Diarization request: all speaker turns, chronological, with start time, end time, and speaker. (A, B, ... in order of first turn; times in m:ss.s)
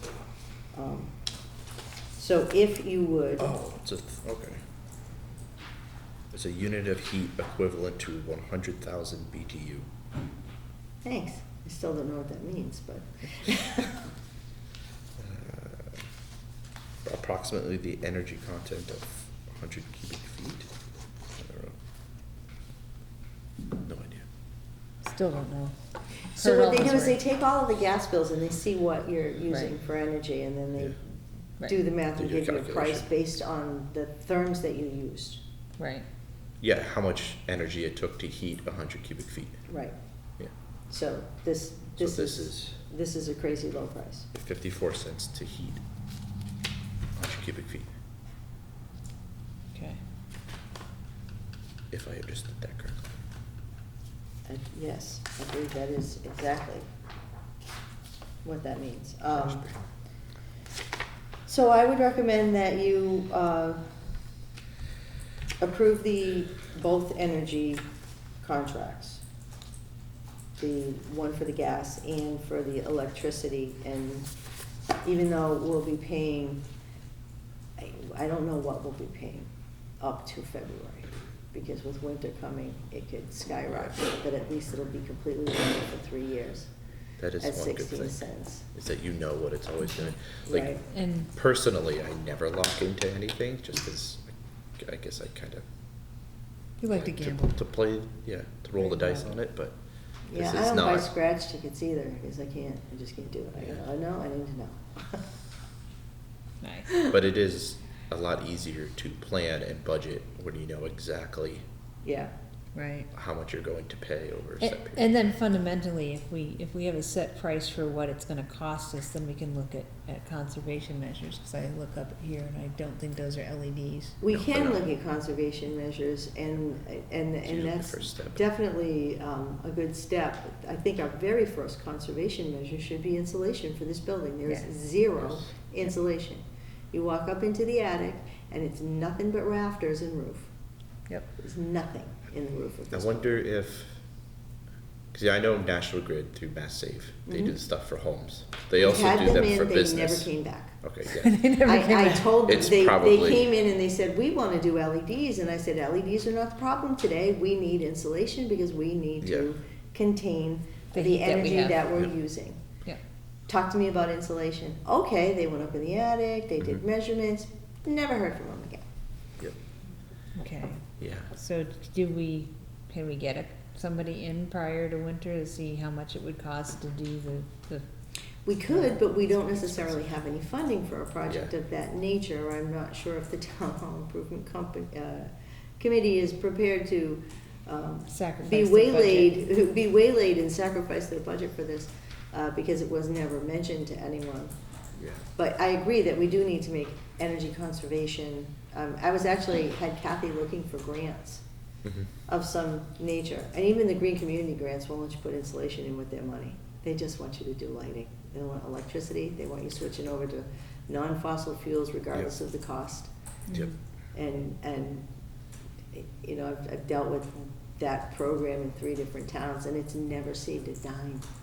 0:00.7-0:01.2 A
0:02.2-0:03.5 A
0:03.4-0:04.6 B
0:06.3-0:09.9 B
0:11.0-0:13.9 A
0:15.2-0:16.0 B
0:17.0-0:20.7 B
0:21.3-0:21.8 B
0:23.8-0:24.3 B
0:25.0-0:25.8 C
0:26.3-0:27.2 C
0:26.3-0:31.0 A
0:31.6-0:35.4 A
0:32.2-0:33.1 B
0:35.8-0:36.1 C
0:36.6-0:39.6 B
0:39.7-0:40.0 A
0:40.9-0:44.3 A
0:42.0-0:42.8 B
0:44.3-0:45.8 B
0:47.2-0:47.9 B
0:49.7-0:50.0 C
0:51.9-0:53.1 B
0:54.5-0:56.9 A
0:58.4-0:59.7 A
0:59.3-0:59.9 B
1:01.5-1:03.8 A
1:05.6-1:07.9 A
1:08.4-1:09.2 A
1:10.6-1:14.3 A
1:15.0-1:16.6 A
1:17.8-1:26.7 A
1:27.2-1:30.8 B
1:27.4-1:28.7 A
1:30.5-1:30.8 A
1:30.9-1:31.3 C
1:31.3-1:35.6 B
1:36.8-1:37.6 C
1:36.9-1:39.8 B
1:38.8-1:39.3 C
1:40.3-1:45.2 A
1:40.3-1:41.1 B
1:46.6-1:47.0 C
1:47.1-1:51.6 B
1:52.0-1:52.3 A
1:52.8-1:53.1 C
1:53.1-1:55.1 B
1:54.6-2:04.2 C
2:04.2-2:20.5 A
2:04.3-2:04.9 B
2:07.4-2:08.4 B
2:14.5-2:14.7 C
2:21.4-2:23.3 A
2:22.9-2:24.0 B
2:25.1-2:31.4 B
2:27.3-2:27.5 A
2:28.8-2:30.8 A
2:31.1-2:32.3 C
2:31.6-2:42.6 A
2:32.4-2:33.5 B
2:40.9-2:41.8 C
2:43.5-2:48.8 A
2:50.4-2:57.8 C
2:51.0-2:51.3 B
2:58.5-3:14.5 A
2:58.7-2:59.0 C
3:08.1-3:09.4 C
3:15.4-3:21.4 A
3:22.3-3:33.1 A
3:33.5-3:33.8 C
3:34.1-3:35.1 A
3:35.9-3:41.3 A